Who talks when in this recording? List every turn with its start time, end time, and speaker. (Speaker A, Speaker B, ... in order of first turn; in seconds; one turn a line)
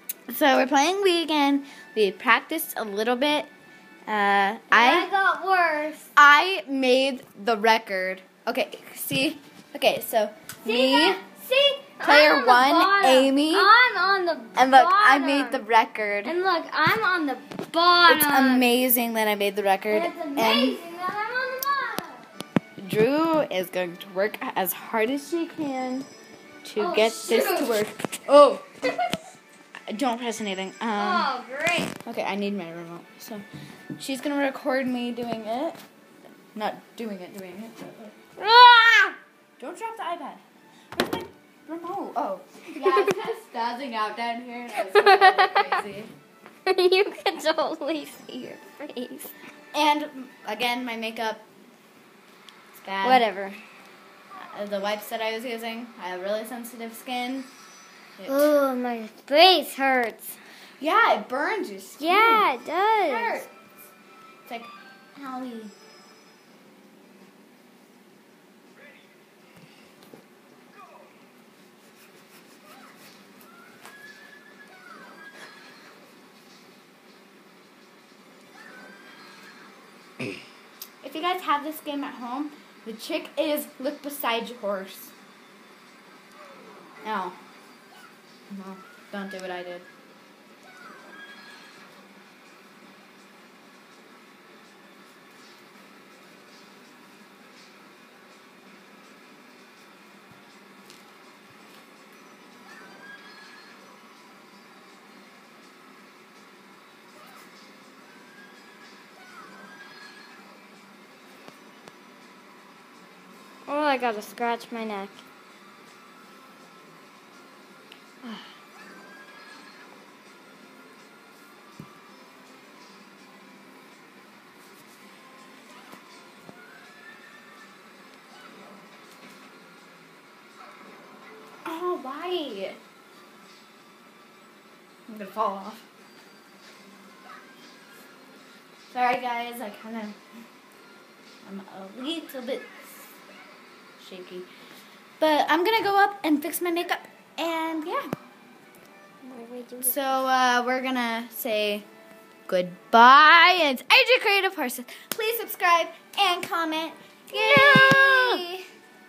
Speaker A: 0.3-3.5
Speaker A: 4.1-5.1
Speaker B: 4.7-6.1
Speaker A: 6.2-11.2
Speaker B: 10.6-15.6
Speaker A: 12.0-13.7
Speaker A: 14.5-16.3
Speaker B: 16.2-18.7
Speaker A: 18.1-20.8
Speaker B: 19.9-22.2
Speaker A: 22.8-26.1
Speaker A: 26.6-28.6
Speaker B: 26.8-27.7
Speaker B: 28.8-29.1
Speaker A: 29.9-31.3
Speaker B: 30.9-32.0
Speaker A: 32.0-33.4
Speaker A: 34.0-35.8
Speaker A: 36.5-38.1
Speaker B: 38.4-39.2
Speaker A: 39.6-40.4
Speaker A: 40.9-46.1
Speaker B: 44.8-45.8
Speaker B: 46.6-49.3
Speaker A: 49.7-51.4
Speaker A: 52.7-53.2
Speaker B: 53.0-53.6
Speaker A: 54.4-57.5
Speaker A: 58.2-58.5
Speaker B: 58.3-60.4
Speaker A: 60.8-62.5
Speaker B: 62.0-63.4
Speaker A: 63.0-63.5
Speaker A: 64.5-65.7
Speaker A: 81.0-85.1
Speaker A: 87.0-87.4
Speaker A: 88.5-89.8
Speaker B: 113.7-115.2
Speaker B: 118.2-118.5
Speaker A: 131.6-132.8
Speaker A: 135.1-135.8
Speaker A: 138.9-140.2
Speaker A: 141.4-142.9
Speaker A: 144.0-144.5
Speaker A: 145.2-148.1
Speaker B: 149.2-150.1
Speaker A: 149.8-151.9
Speaker A: 152.5-158.5
Speaker B: 157.3-158.5